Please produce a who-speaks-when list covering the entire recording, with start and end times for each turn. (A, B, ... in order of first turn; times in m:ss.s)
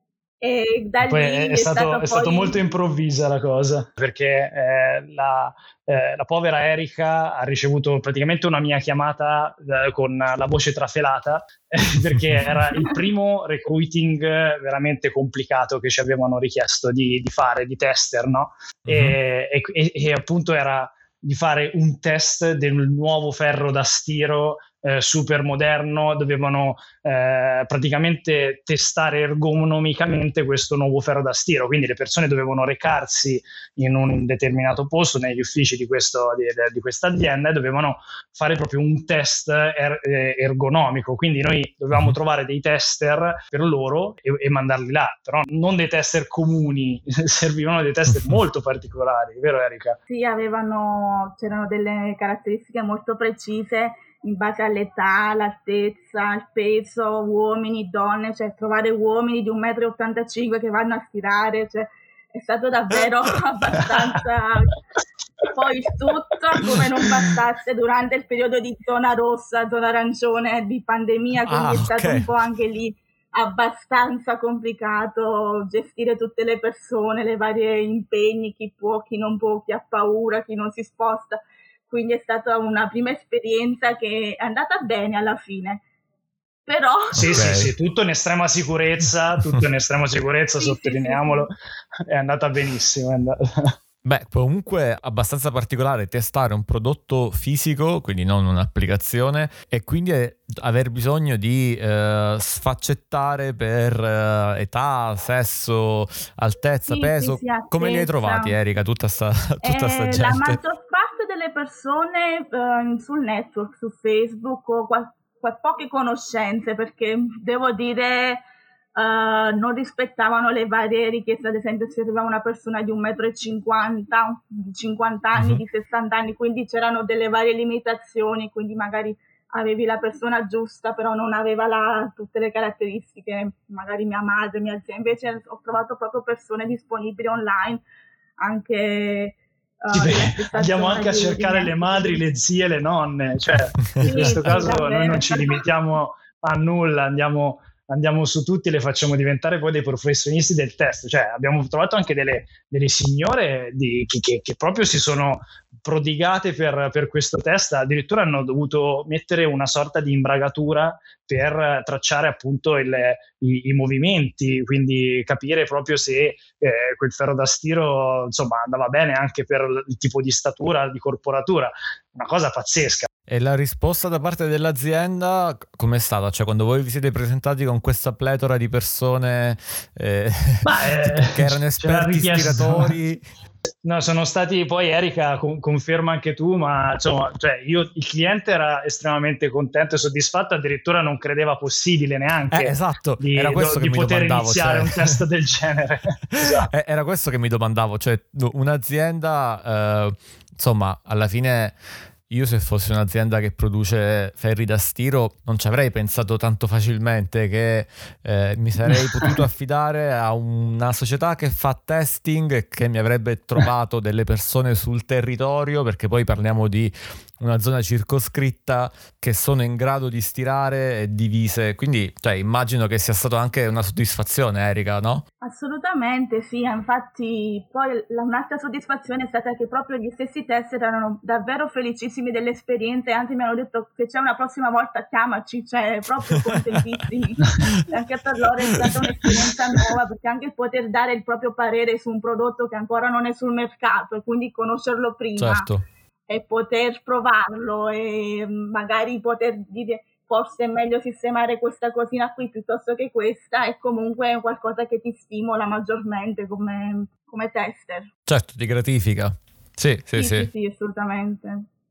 0:00.4-0:02.6 A
0:01.0-0:50.0 B
0:18.9-0:19.2 C
0:50.1-1:04.8 A
1:05.5-1:25.8 A
1:11.4-1:12.3 C
1:26.7-1:27.6 A
1:27.1-1:27.7 C
1:27.1-1:31.5 B
1:30.6-1:31.5 A
1:32.1-1:33.7 B
1:34.0-1:50.6 C
1:46.9-1:48.6 A
1:49.6-1:58.4 A
1:59.0-2:17.8 A
2:05.4-2:05.6 C
2:18.4-2:22.2 A
2:19.9-2:53.1 B
2:24.0-2:25.6 A
2:53.3-3:03.2 C
3:00.6-3:03.0 B
3:03.8-3:16.7 B
3:12.5-3:15.2 C
3:16.3-3:21.7 C
3:22.3-3:45.2 C
3:45.4-4:05.7 A
4:05.4-4:05.8 C
4:06.3-4:18.1 A
4:18.3-4:20.5 C
4:20.1-4:21.7 A